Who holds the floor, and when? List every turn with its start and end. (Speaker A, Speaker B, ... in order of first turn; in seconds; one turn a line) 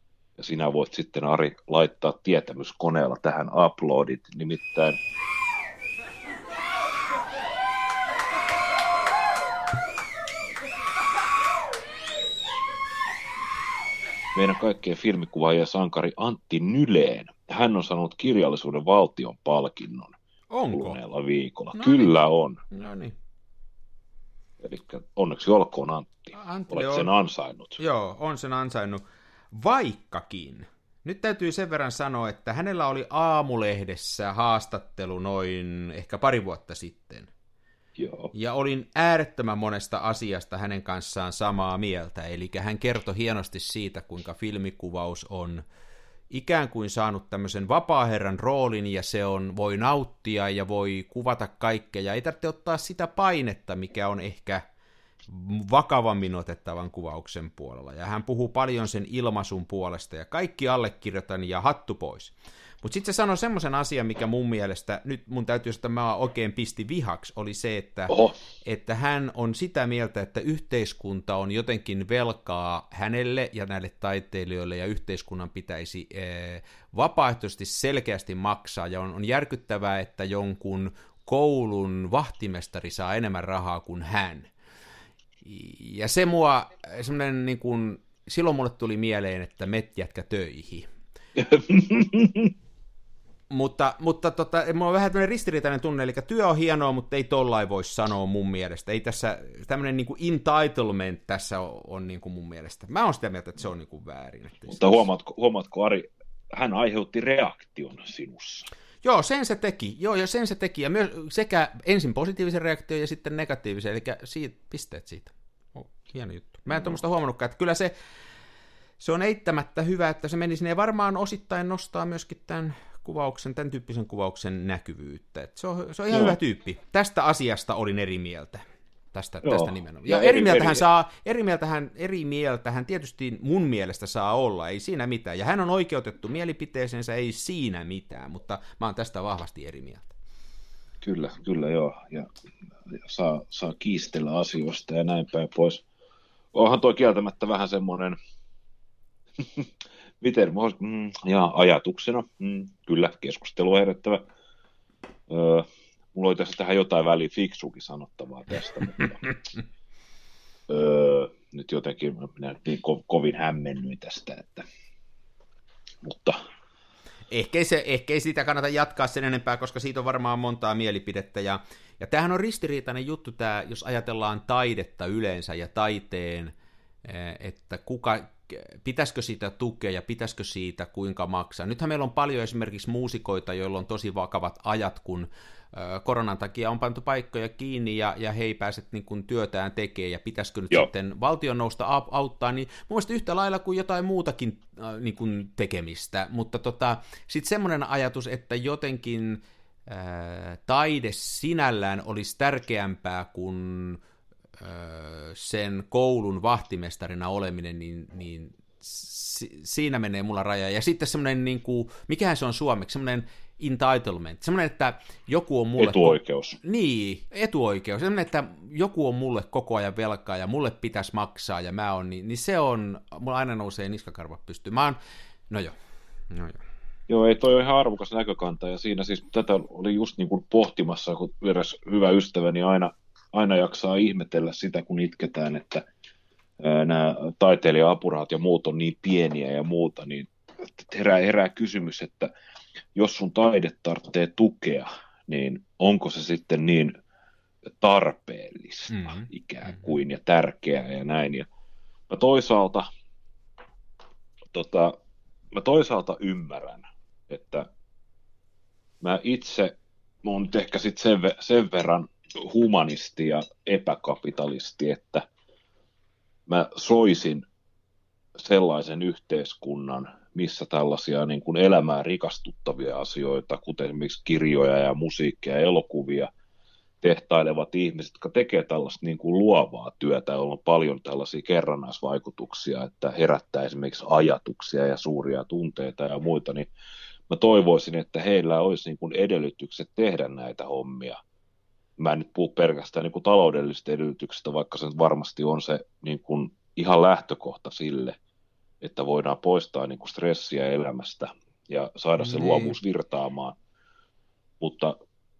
Speaker A: 0.4-5.0
Speaker A: 14.3-20.2
Speaker B: 20.5-21.0
Speaker A: 20.7-22.6
Speaker B: 21.8-22.1
Speaker B: 22.7-23.2
Speaker A: 24.6-27.8
Speaker B: 26.3-27.1
Speaker B: 27.8-37.3
Speaker A: 38.0-38.3
Speaker B: 38.3-45.6
Speaker B: 46.3-54.6
Speaker B: 55.3-84.5
Speaker B: 85.4-90.9
Speaker A: 91.4-92.5
Speaker B: 93.5-105.1
Speaker A: 104.7-108.7
Speaker B: 109.0-117.9
Speaker B: 119.0-140.1
Speaker A: 126.1-126.4
Speaker A: 129.4-130.8
Speaker A: 141.0-142.3
Speaker A: 142.9-145.8
Speaker A: 146.5-148.2
Speaker A: 149.4-149.7
Speaker A: 150.2-154.2
Speaker A: 155.3-159.3
Speaker A: 160.7-164.7
Speaker A: 166.0-166.4
Speaker B: 167.3-204.0
Speaker B: 204.6-225.0
Speaker A: 215.8-216.6
Speaker B: 225.5-225.8
Speaker B: 226.3-226.6
Speaker A: 227.1-235.8
Speaker A: 236.6-242.3
Speaker A: 242.9-247.0
Speaker A: 247.7-251.5
Speaker B: 248.9-249.2
Speaker A: 252.1-252.9
Speaker A: 254.5-255.0
Speaker A: 255.5-257.7
Speaker A: 259.0-265.2
Speaker A: 266.5-267.5
Speaker A: 268.4-276.3
Speaker A: 277.0-286.7
Speaker A: 287.3-291.2
Speaker A: 292.0-298.2
Speaker A: 298.8-303.6
Speaker B: 302.2-302.8
Speaker A: 304.6-305.0